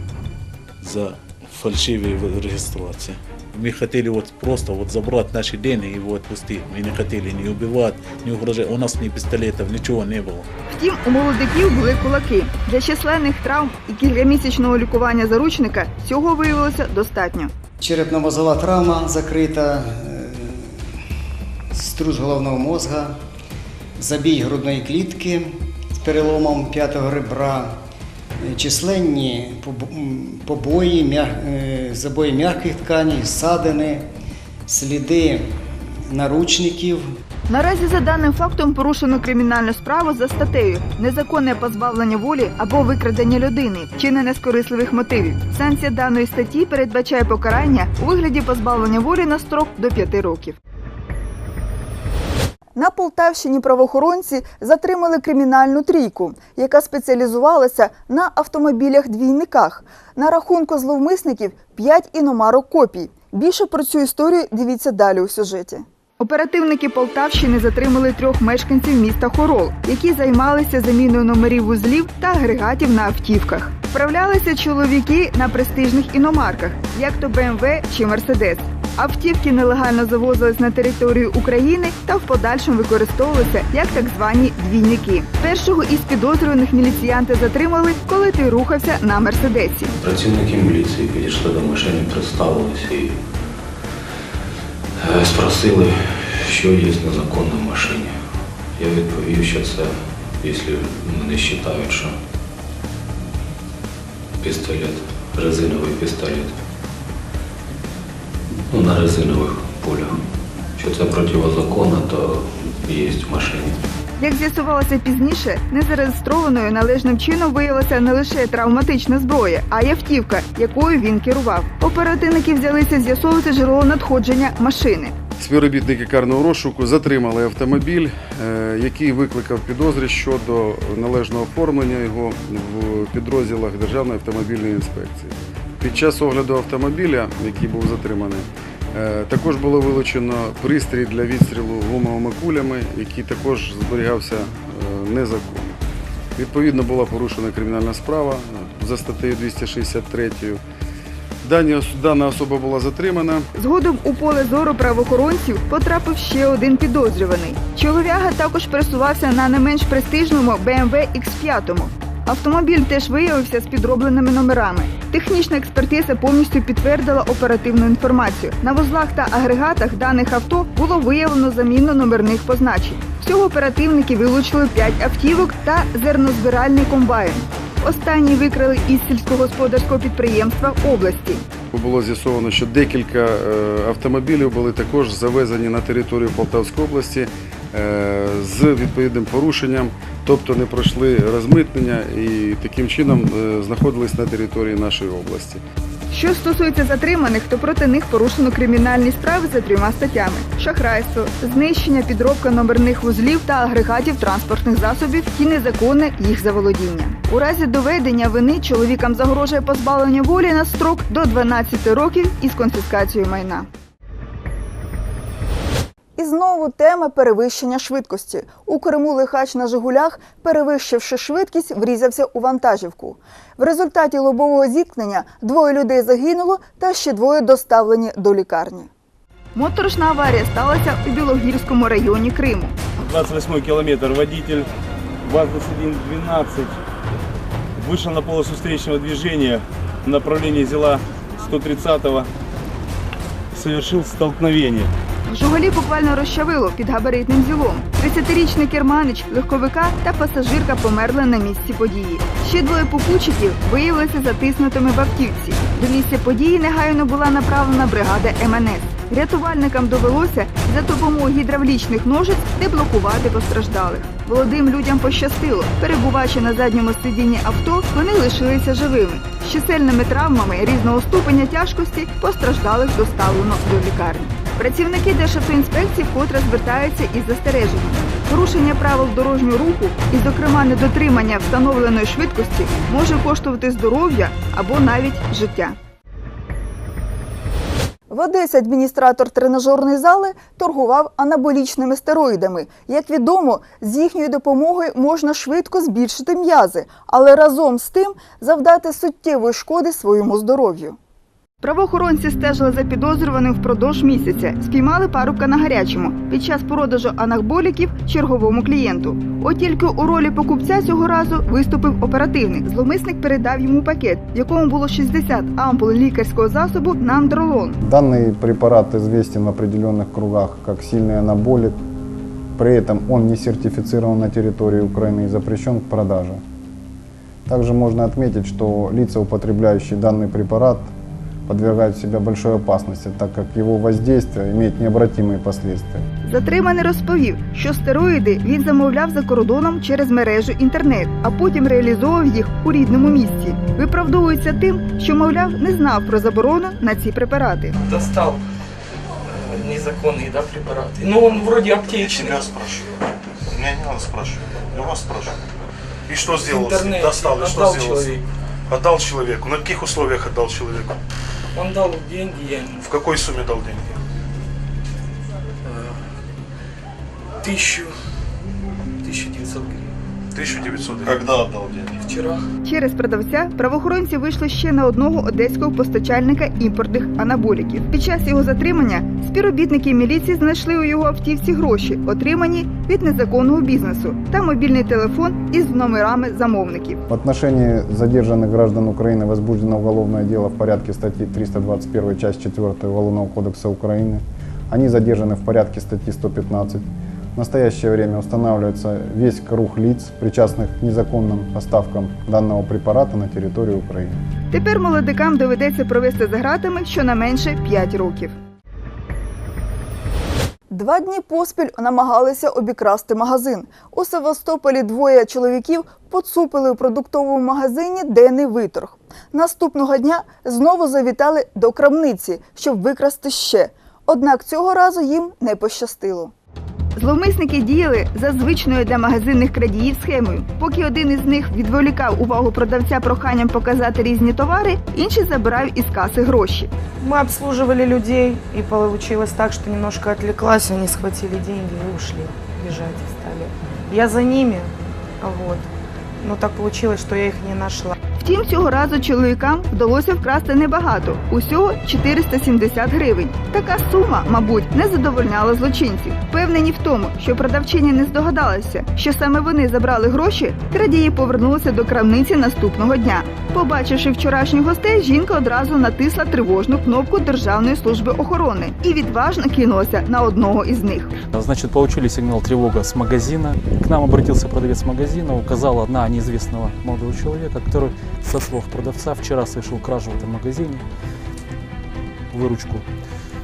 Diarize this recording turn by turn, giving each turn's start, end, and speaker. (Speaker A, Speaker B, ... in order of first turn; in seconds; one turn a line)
Speaker A: 0.8-10.4
Speaker B: 10.7-17.5
Speaker C: 17.8-20.9
Speaker C: 21.7-23.2
Speaker C: 24.0-27.8
Speaker C: 28.4-34.1
Speaker C: 34.7-37.1
Speaker B: 37.5-50.5
Speaker B: 52.7-89.9
Speaker D: 90.0-93.2
Speaker D: 95.0-98.2
Speaker D: 98.7-102.2
Speaker D: 104.4-106.5
Speaker D: 108.7-110.2
Speaker D: 110.8-113.8
Speaker B: 114.2-125.1
Speaker E: 125.4-145.7
Speaker E: 146.3-150.6
Speaker E: 151.4-153.5
Speaker B: 153.5-181.4
Speaker E: 181.7-195.6
Speaker B: 196.1-213.7
Speaker B: 216.2-228.9
Speaker B: 229.5-232.8
Speaker F: 233.0-234.7
Speaker F: 235.2-236.8
Speaker F: 237.8-242.3
Speaker F: 243.5-244.9
Speaker B: 245.3-285.8
Speaker B: 288.1-301.0
Speaker B: 301.6-317.8
Speaker G: 317.8-321.8
Speaker G: 322.6-326.4
Speaker G: 327.4-330.9
Speaker G: 331.4-336.0
Speaker B: 336.2-347.8
Speaker H: 347.8-348.4
Speaker H: 349.2-352.5
Speaker I: 351.9-352.8
Speaker I: 353.5-355.3
Speaker I: 356.1-358.1
Speaker H: 356.4-358.2
Speaker I: 358.7-361.0
Speaker H: 361.5-362.9
Speaker I: 362.8-363.9
Speaker H: 365.6-366.0
Speaker H: 367.4-367.9
Speaker H: 369.0-369.9
Speaker I: 370.3-371.9
Speaker H: 371.9-372.4
Speaker B: 372.6-387.0
Speaker G: 387.1-404.2
Speaker B: 404.5-408.3
Speaker B: 410.7-426.3
Speaker B: 426.9-436.7
Speaker J: 437.0-445.7
Speaker J: 446.2-447.9
Speaker B: 448.2-471.1
Speaker K: 471.3-480.8
Speaker K: 482.3-482.8